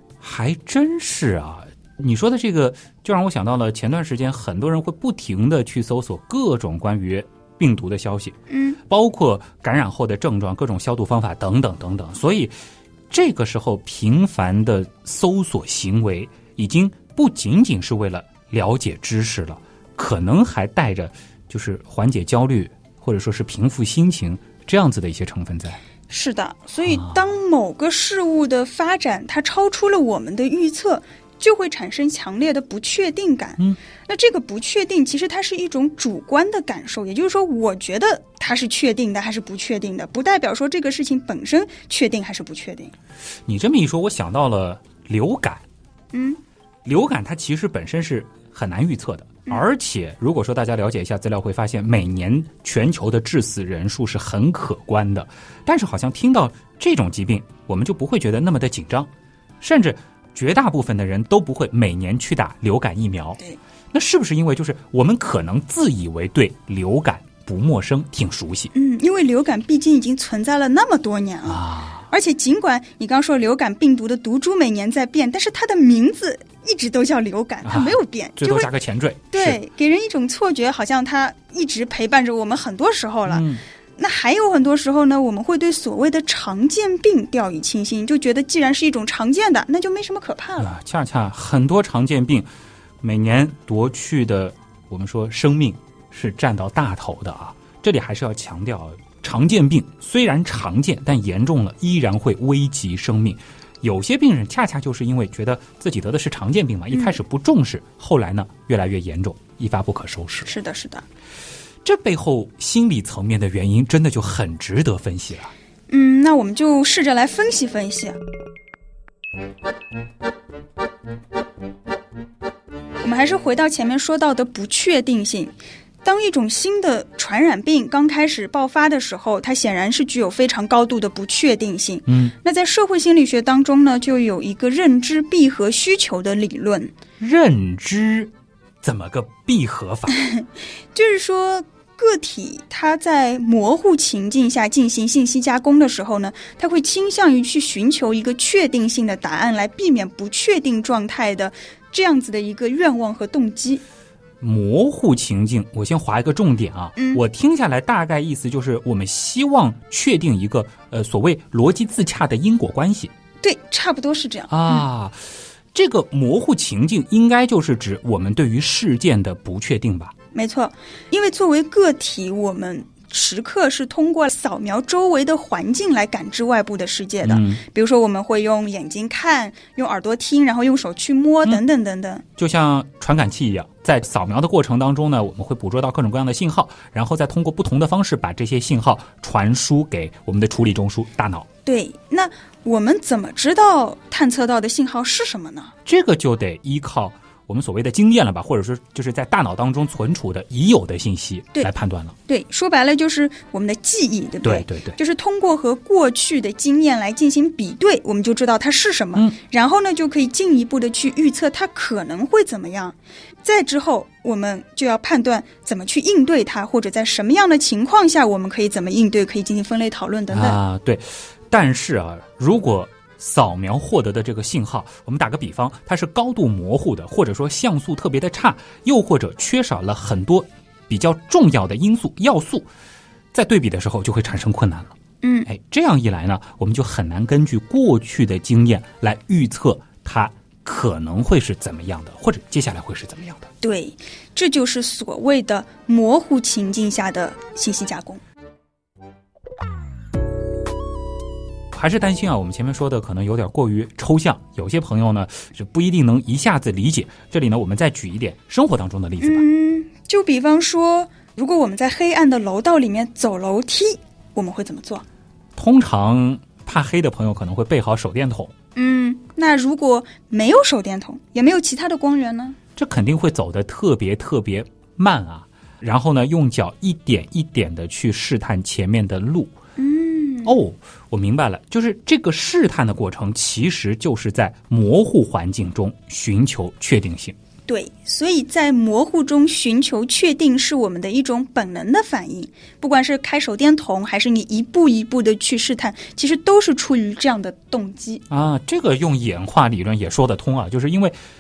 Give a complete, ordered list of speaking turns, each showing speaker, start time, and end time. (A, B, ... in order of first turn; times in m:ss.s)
0:00.2-0:08.4 A
0:08.5-0:08.8 B
0:08.9-0:12.5 A
0:13.1-0:25.8 A
0:26.1-0:42.9 B
0:26.8-0:27.2 A
0:43.5-0:45.6 A
0:46.1-0:46.4 B
0:46.8-0:59.1 A
0:59.6-1:03.4 A
1:03.9-1:08.7 A
1:08.7-1:18.7 B
1:11.5-1:12.0 A
1:17.6-1:19.6 A
1:19.3-1:30.7 B
1:23.3-1:23.6 A
1:30.6-1:32.5 A
1:33.0-1:50.5 A
1:46.9-1:47.2 B
1:50.5-1:51.0 B
1:51.8-1:55.5 A
1:55.9-1:58.2 B
2:03.0-2:16.9 B
2:12.1-2:12.3 A
2:17.2-2:20.2 A
2:20.1-2:33.8 B
2:34.4-2:43.1 A
2:37.0-2:37.2 B
2:43.4-2:44.8 B
2:44.5-2:50.1 A
2:50.3-3:02.2 B
2:57.2-2:57.6 A
3:02.4-3:11.5 A
3:11.7-3:15.7 B
3:15.9-3:22.2 A
3:22.3-3:40.6 B
3:24.4-3:25.0 A
3:40.3-3:52.7 A
3:53.3-3:54.9 A
3:55.2-3:55.5 B
3:55.5-4:03.5 A
4:03.6-4:08.2 B
4:11.7-4:19.5 A
4:19.2-4:25.0 B
4:25.6-4:28.5 A
4:28.8-4:32.6 B
4:32.8-4:39.5 A
4:39.8-4:40.6 B
4:40.4-4:47.4 A
4:47.7-4:58.2 B
4:58.3-5:01.2 A